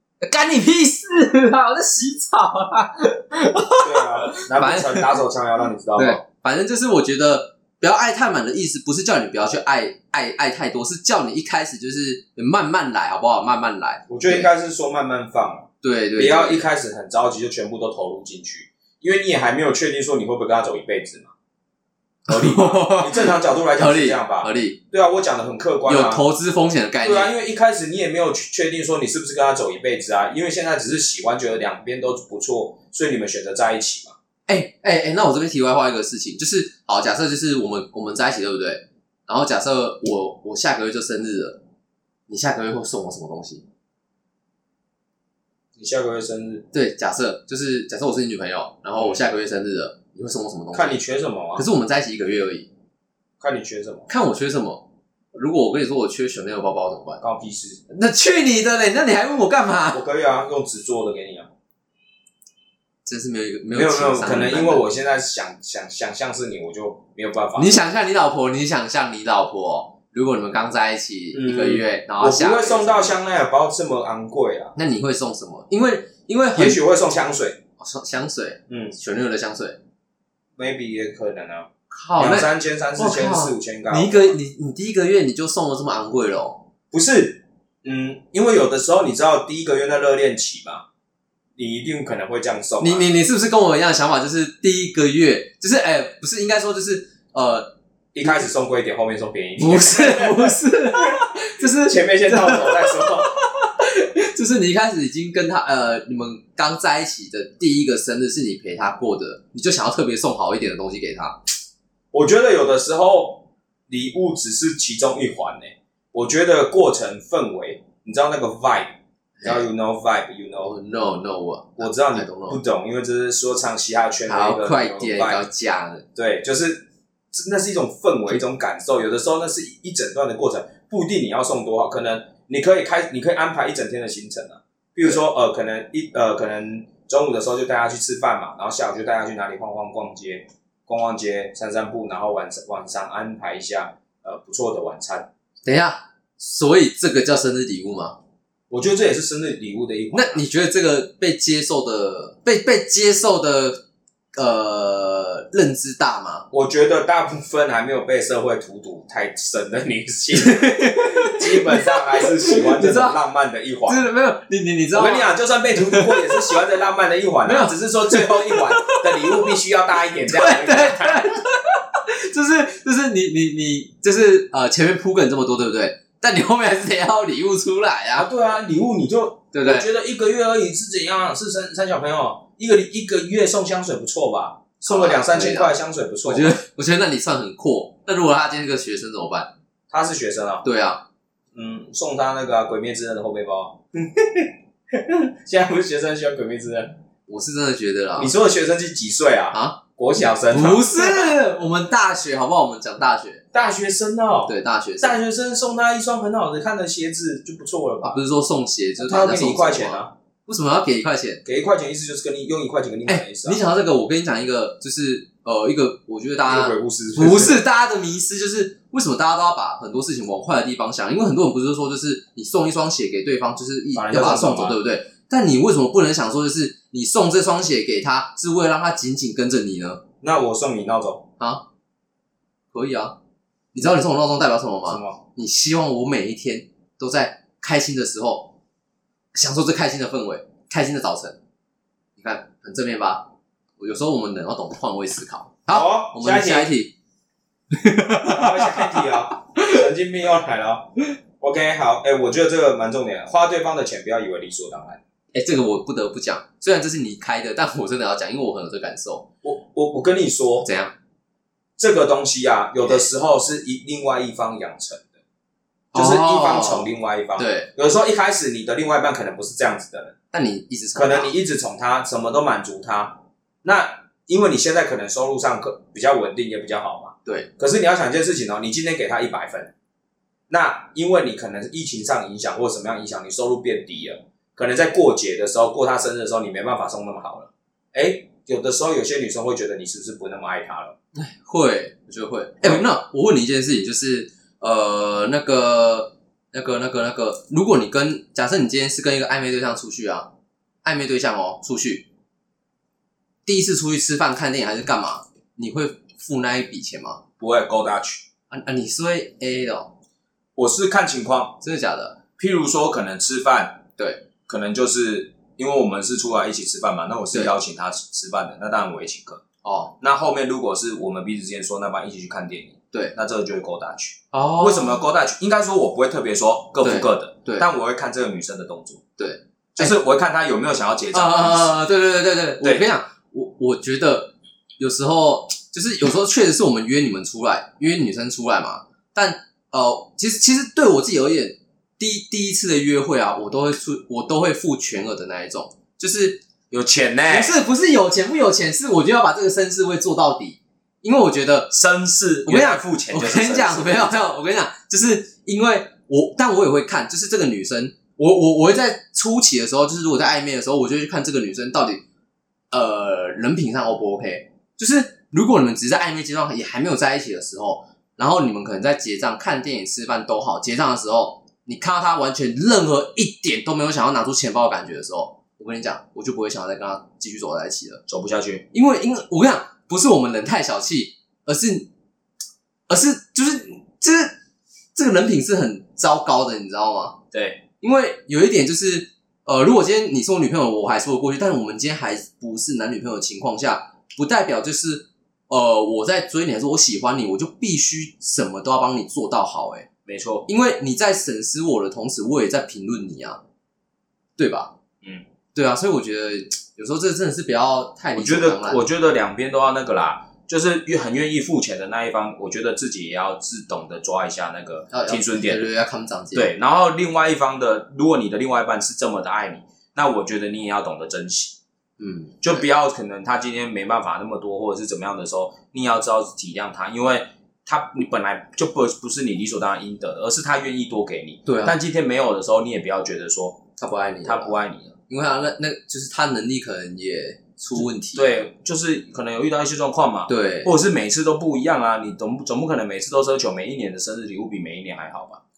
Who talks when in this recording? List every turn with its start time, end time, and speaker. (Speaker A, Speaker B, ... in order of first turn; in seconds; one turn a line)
Speaker A: 0.2-5.2
Speaker B: 3.8-6.2
Speaker A: 6.0-14.5
Speaker B: 14.1-21.3
Speaker A: 15.8-16.6
Speaker A: 22.3-24.8
Speaker B: 22.3-26.2
Speaker A: 25.9-27.3
Speaker B: 27.0-34.2
Speaker A: 34.5-41.6
Speaker A: 42.3-43.6
Speaker B: 45.8-46.7
Speaker A: 46.7-51.0
Speaker B: 50.7-51.7
Speaker A: 51.5-52.7
Speaker B: 53.4-54.1
Speaker A: 54.1-57.2
Speaker B: 57.2-57.8
Speaker A: 57.9-60.0
Speaker B: 59.9-61.5
Speaker A: 63.1-64.8
Speaker B: 63.8-67.8
Speaker A: 67.6-73.2
Speaker B: 71.3-74.7
Speaker A: 74.8-76.8
Speaker B: 76.5-77.6
Speaker A: 77.8-79.8
Speaker B: 78.7-79.0
Speaker B: 80.6-84.4
Speaker A: 81.9-86.6
Speaker B: 86.9-90.8
Speaker B: 91.6-93.1
Speaker A: 92.8-97.7
Speaker B: 98.1-103.4
Speaker A: 99.6-111.4
Speaker B: 112.1-120.7
Speaker A: 119.4-119.7
Speaker A: 120.6-122.6
Speaker B: 121.8-125.4
Speaker A: 124.3-126.0
Speaker B: 126.2-145.3
Speaker A: 145.7-148.2
Speaker B: 148.7-150.4
Speaker A: 150.1-153.8
Speaker A: 154.3-156.5
Speaker B: 156.5-164.1
Speaker A: 160.4-163.2
Speaker A: 163.9-166.6
Speaker B: 164.9-171.3
Speaker A: 167.4-169.6
Speaker A: 170.3-178.3
Speaker B: 178.2-186.6
Speaker A: 179.5-179.9
Speaker A: 184.9-189.5
Speaker B: 189.9-190.7
Speaker A: 190.6-191.0
Speaker B: 191.5-197.0
Speaker A: 197.3-198.3
Speaker B: 198.2-201.3
Speaker A: 199.5-199.8
Speaker A: 200.5-203.4
Speaker B: 203.5-208.2
Speaker A: 204.5-205.2
Speaker A: 208.0-211.4
Speaker B: 209.0-210.1
Speaker B: 211.4-213.6
Speaker A: 213.1-230.0
Speaker B: 216.5-217.6
Speaker B: 223.9-224.8
Speaker B: 230.2-231.3
Speaker A: 231.4-231.6
Speaker A: 232.7-233.2
Speaker A: 233.7-238.5
Speaker B: 234.9-235.2
Speaker A: 239.3-241.4
Speaker A: 242.2-246.9
Speaker B: 245.7-246.7
Speaker A: 247.7-249.1
Speaker B: 248.1-255.0
Speaker A: 255.3-259.3
Speaker B: 259.4-260.7
Speaker A: 260.6-260.9
Speaker B: 261.8-265.1
Speaker A: 265.9-267.7
Speaker B: 265.9-270.1
Speaker A: 270.3-271.3
Speaker B: 270.9-279.7
Speaker B: 280.5-290.9
Speaker A: 291.1-300.3
Speaker A: 300.8-302.1
Speaker A: 303.5-307.2
Speaker B: 307.4-308.2
Speaker A: 308.5-309.9
Speaker B: 310.6-311.6
Speaker A: 311.6-312.2
Speaker B: 312.4-313.8
Speaker A: 314.0-314.2
Speaker B: 314.5-319.4
Speaker A: 319.6-319.9
Speaker B: 320.0-329.0
Speaker A: 324.3-325.0
Speaker A: 326.8-327.7
Speaker A: 329.2-330.0
Speaker B: 329.8-331.8
Speaker A: 331.1-346.4
Speaker B: 332.6-332.9
Speaker B: 346.7-347.6
Speaker A: 347.3-351.8
Speaker B: 351.7-354.2
Speaker A: 352.5-362.0
Speaker A: 362.7-378.0
Speaker B: 378.1-378.7
Speaker A: 378.7-381.9
Speaker A: 382.9-384.4
Speaker A: 384.9-387.2
Speaker B: 387.3-387.6
Speaker A: 387.8-399.9
Speaker B: 400.1-400.5
Speaker A: 400.5-403.4
Speaker A: 404.4-404.7
Speaker A: 405.5-408.9
Speaker B: 408.1-415.6
Speaker A: 414.9-416.5
Speaker B: 416.3-421.6
Speaker A: 422.0-422.6
Speaker B: 422.4-433.7
Speaker A: 431.5-431.8
Speaker A: 433.8-434.6
Speaker B: 434.2-434.9
Speaker A: 435.1-438.4
Speaker B: 437.8-445.4
Speaker A: 440.3-440.7